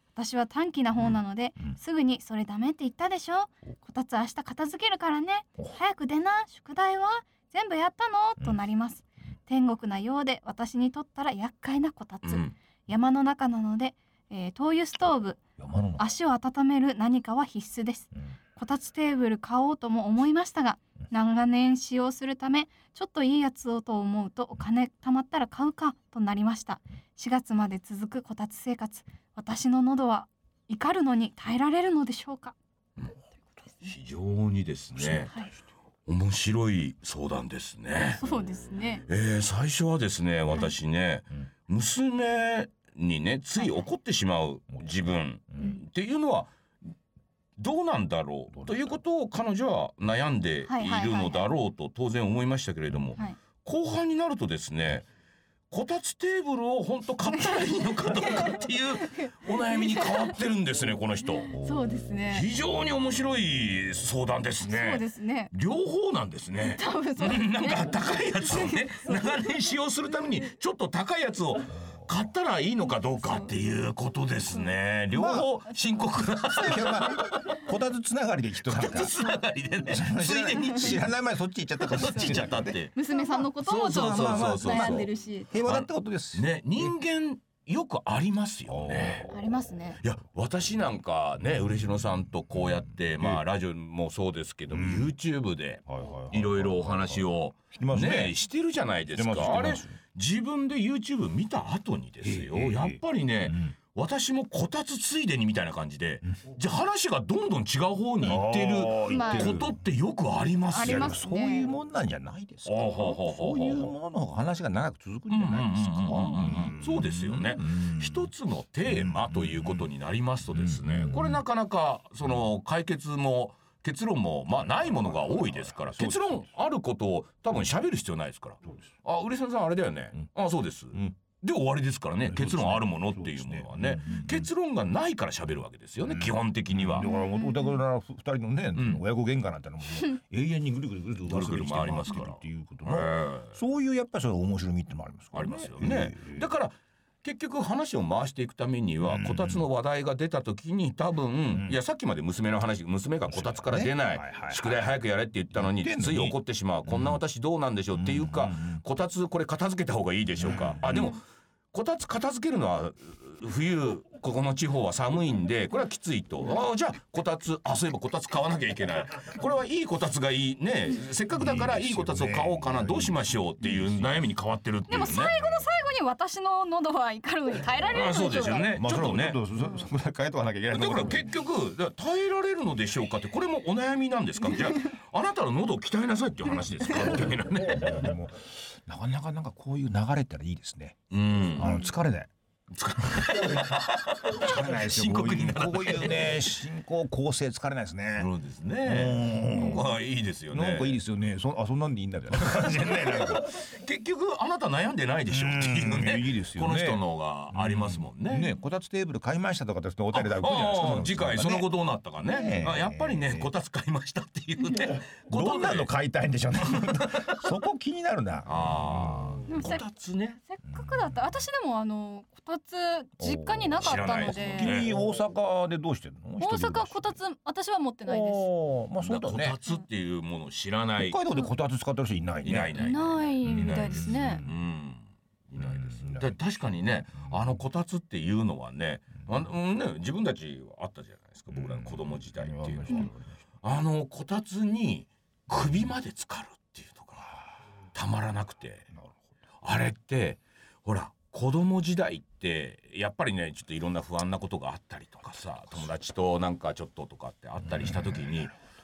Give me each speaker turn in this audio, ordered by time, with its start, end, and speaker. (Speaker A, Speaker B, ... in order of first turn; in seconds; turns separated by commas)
Speaker A: 0.2-15.4, Speaker B: 12.2-12.6, Speaker C: 15.6-16.1, Speaker A: 16.0-32.6, Speaker B: 33.8-35.3, Speaker C: 35.0-35.3, Speaker B: 36.1-38.2, Speaker A: 38.2-39.0, Speaker B: 39.1-46.5, Speaker B: 47.6-55.1, Speaker C: 48.5-48.9, Speaker A: 50.7-51.5, Speaker B: 55.7-61.5, Speaker A: 57.3-60.3, Speaker A: 61.5-62.5, Speaker C: 61.5-62.1, Speaker B: 62.2-77.7, Speaker A: 64.6-65.5, Speaker A: 66.6-68.9, Speaker A: 73.2-73.5, Speaker C: 75.1-75.5, Speaker C: 76.5-79.3, Speaker B: 78.7-81.1, Speaker C: 79.9-82.8, Speaker B: 81.8-85.1, Speaker A: 81.9-85.5, Speaker C: 83.7-86.9, Speaker B: 85.6-89.3, Speaker C: 88.7-89.5, Speaker A: 89.3-90.0, Speaker B: 90.0-111.2, Speaker C: 94.7-95.1, Speaker C: 95.9-98.4, Speaker C: 99.1-100.0, Speaker C: 102.2-103.7, Speaker C: 108.2-109.8, Speaker A: 109.1-109.7, Speaker A: 110.7-111.7, Speaker C: 110.8-118.3, Speaker B: 112.7-113.9, Speaker B: 115.3-137.1, Speaker C: 118.9-119.9, Speaker C: 120.5-121.4, Speaker C: 124.7-126.5, Speaker C: 132.2-134.5, Speaker C: 136.2-146.5, Speaker A: 137.0-137.8, Speaker B: 138.8-139.0, Speaker B: 141.3-143.6, Speaker B: 145.3-161.2, Speaker C: 149.0-149.7, Speaker C: 151.5-151.8, Speaker C: 153.3-154.9, Speaker C: 155.5-157.2, Speaker C: 157.9-158.8, Speaker C: 160.4-161.2, Speaker B: 161.7-175.4, Speaker C: 171.3-174.2, Speaker A: 174.9-178.7, Speaker B: 177.9-179.4, Speaker C: 178.7-181.3, Speaker B: 180.7-188.1, Speaker C: 187.6-191.0, Speaker B: 191.1-191.8, Speaker C: 191.5-192.3, Speaker B: 192.7-196.5, Speaker C: 194.3-198.3, Speaker B: 198.2-201.0, Speaker C: 198.8-199.9, Speaker C: 200.5-203.6, Speaker B: 202.4-208.5, Speaker C: 205.3-213.5, Speaker B: 210.1-215.9, Speaker C: 215.3-219.5, Speaker B: 216.6-217.5, Speaker B: 218.5-220.4, Speaker A: 219.5-219.8, Speaker A: 220.5-224.8, Speaker C: 220.7-221.2, Speaker C: 223.2-227.2, Speaker B: 223.8-224.9, Speaker A: 226.4-228.5, Speaker C: 228.1-229.6, Speaker B: 229.0-231.2, Speaker C: 231.0-234.6, Speaker B: 232.4-247.4, Speaker A: 232.8-234.4, Speaker C: 235.6-236.3, Speaker C: 241.5-243.3, Speaker B: 247.9-248.9, Speaker C: 249.0-249.3, Speaker B: 249.6-258.5